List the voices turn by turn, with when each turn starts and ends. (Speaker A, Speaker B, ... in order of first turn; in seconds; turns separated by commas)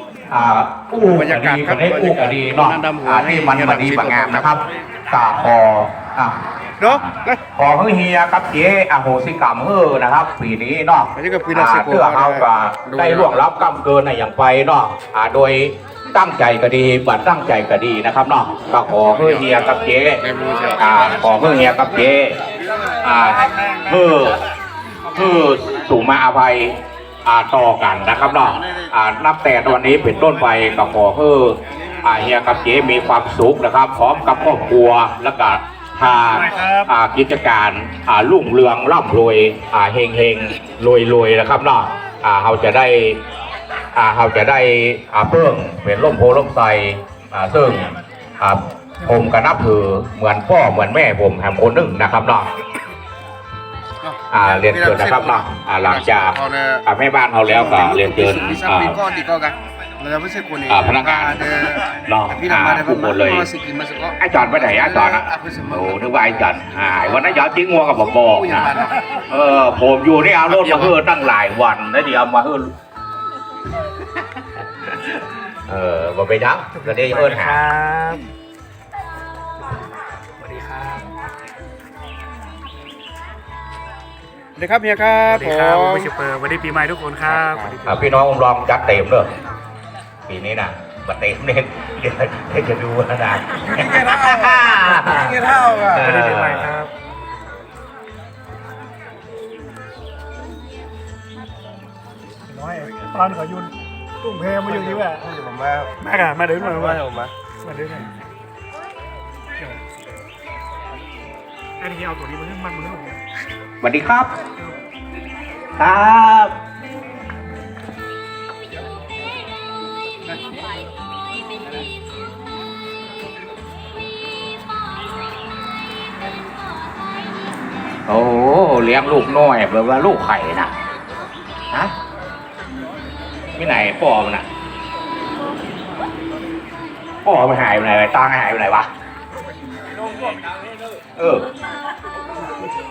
Speaker A: 0.3-22.4, Speaker B: 1.1-4.6, Speaker B: 6.8-7.4, Speaker B: 11.2-13.4, Speaker B: 19.1-19.6, Speaker B: 20.2-20.8, Speaker A: 23.0-24.4, Speaker A: 25.1-43.2, Speaker C: 36.4-36.9, Speaker A: 44.0-52.5, Speaker B: 54.0-56.8, Speaker A: 54.3-59.0, Speaker B: 57.5-66.4, Speaker A: 60.7-63.5, Speaker A: 64.2-72.7, Speaker B: 68.1-69.1, Speaker A: 74.9-77.6, Speaker C: 76.8-78.2, Speaker C: 80.4-81.1, Speaker B: 84.6-86.1, Speaker C: 85.3-88.1, Speaker B: 87.3-87.8, Speaker A: 87.8-89.3, Speaker A: 90.3-96.7, Speaker B: 93.7-96.1, Speaker C: 95.9-96.9, Speaker C: 102.5-105.3, Speaker B: 104.7-105.9, Speaker C: 106.0-107.1, Speaker B: 106.7-107.3, Speaker C: 107.6-108.1, Speaker C: 111.8-113.2, Speaker A: 113.8-114.3, Speaker A: 115.8-116.5, Speaker A: 128.1-130.7, Speaker A: 133.6-134.5, Speaker A: 137.2-138.9, Speaker A: 141.2-141.5